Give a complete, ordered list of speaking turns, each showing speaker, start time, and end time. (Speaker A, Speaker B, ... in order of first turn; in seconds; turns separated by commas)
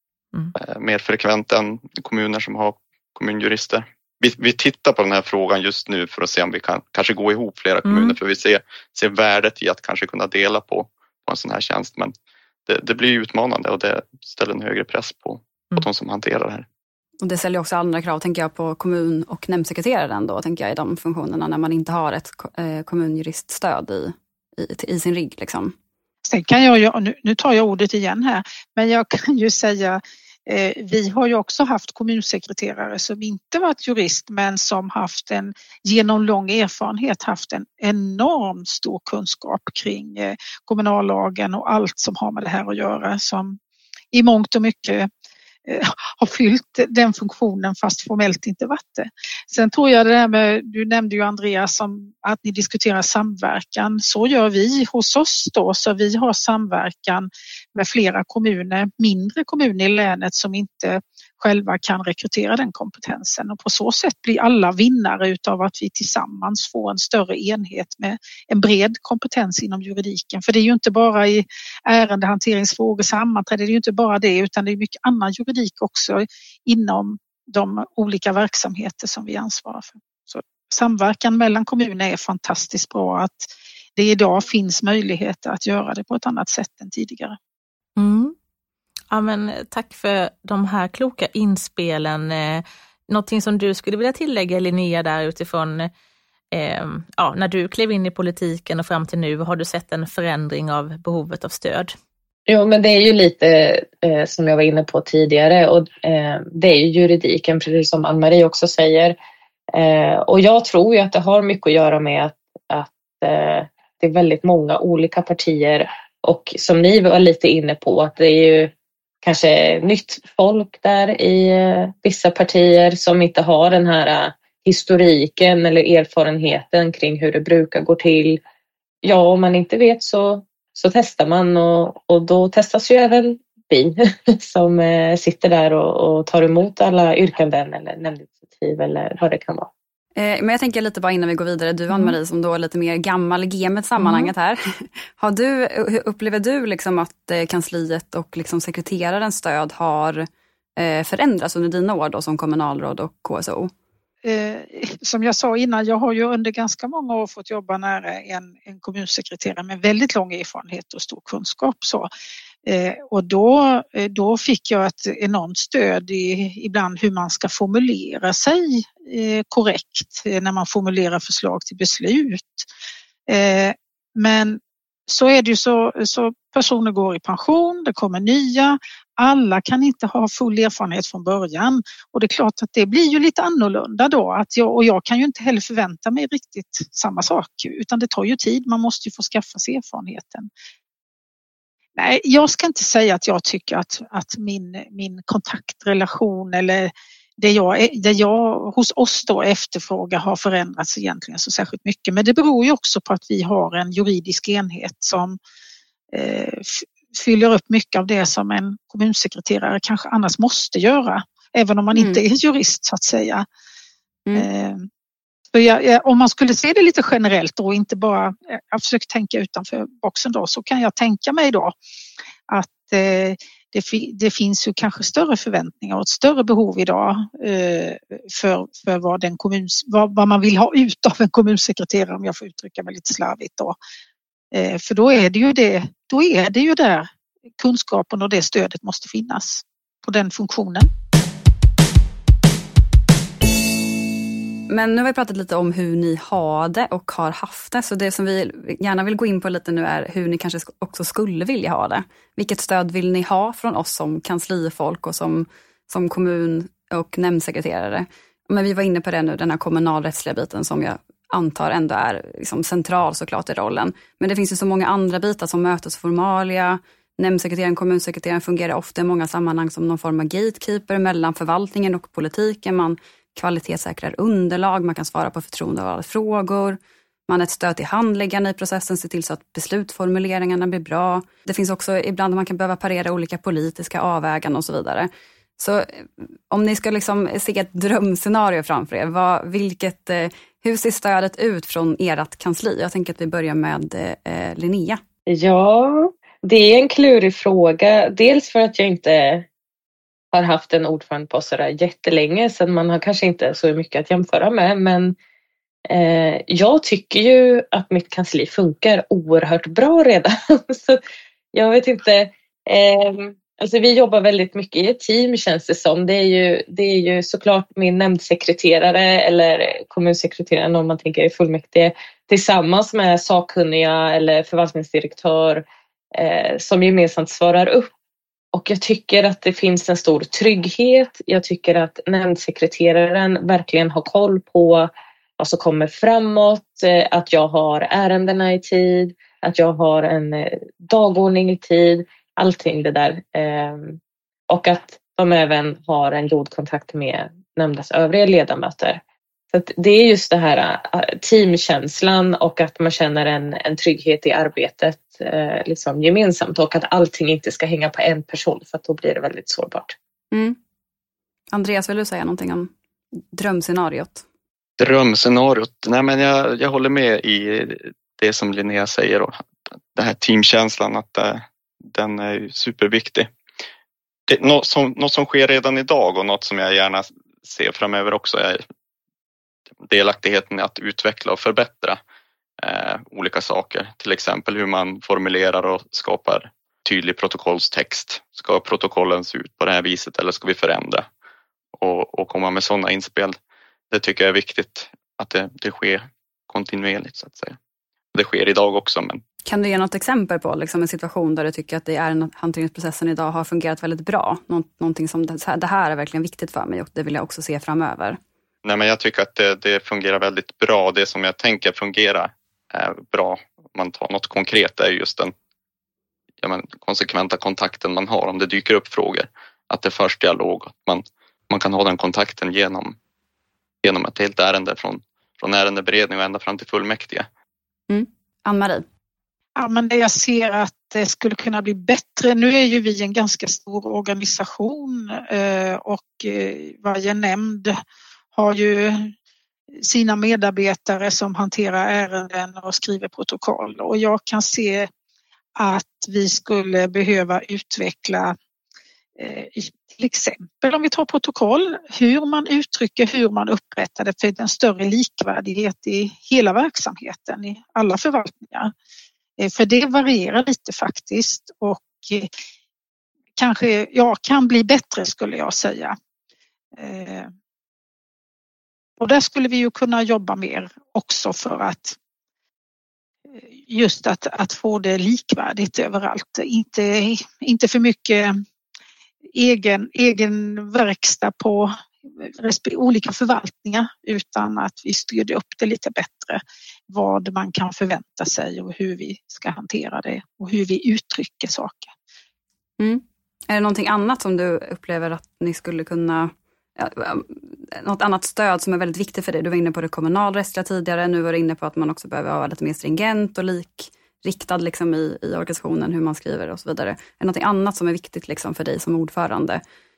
Speaker A: 0.6-12.1, Speaker B: 7.8-8.2, Speaker A: 12.7-16.7, Speaker C: 17.2-25.8, Speaker D: 26.3-43.6, Speaker D: 44.1-45.1, Speaker D: 45.7-87.4, Speaker B: 88.0-88.3, Speaker B: 89.1-95.9, Speaker B: 96.5-101.9, Speaker E: 102.5-109.2, Speaker E: 109.7-118.7, Speaker E: 119.2-128.4, Speaker E: 129.0-139.7, Speaker C: 140.2-150.3, Speaker B: 141.9-142.2, Speaker B: 144.0-144.3, Speaker C: 150.8-153.7, Speaker D: 154.2-162.1, Speaker D: 162.7-172.7, Speaker D: 173.3-190.5, Speaker D: 192.0-205.4, Speaker D: 206.1-213.4, Speaker C: 211.9-212.2, Speaker D: 214.3-214.9, Speaker D: 215.5-221.8, Speaker D: 222.5-233.8, Speaker D: 234.5-240.9, Speaker C: 244.7-295.0, Speaker E: 295.3-299.5, Speaker E: 300.3-305.2, Speaker E: 305.9-311.0, Speaker E: 311.5-327.9, Speaker E: 328.5-344.0, Speaker E: 344.5-349.0, Speaker E: 349.5-359.9, Speaker C: 360.3-360.6, Speaker C: 361.5-362.7, Speaker C: 363.3-364.2, Speaker A: 364.8-369.4, Speaker A: 369.9-373.3, Speaker A: 374.3-378.6, Speaker A: 379.9-382.0, Speaker A: 382.6-391.1, Speaker A: 391.8-393.4, Speaker A: 393.9-397.6, Speaker A: 398.1-399.2, Speaker C: 399.5-408.2, Speaker A: 408.6-415.3, Speaker A: 416.4-423.0, Speaker A: 423.8-427.3, Speaker C: 427.9-428.9, Speaker D: 429.6-437.8, Speaker D: 438.4-439.1, Speaker D: 439.8-444.9, Speaker D: 445.6-448.4, Speaker D: 449.2-458.7, Speaker D: 459.4-462.3, Speaker D: 463.4-465.9, Speaker D: 466.8-467.3, Speaker D: 469.0-472.0, Speaker D: 473.6-478.4, Speaker D: 479.4-491.9, Speaker C: 492.8-509.6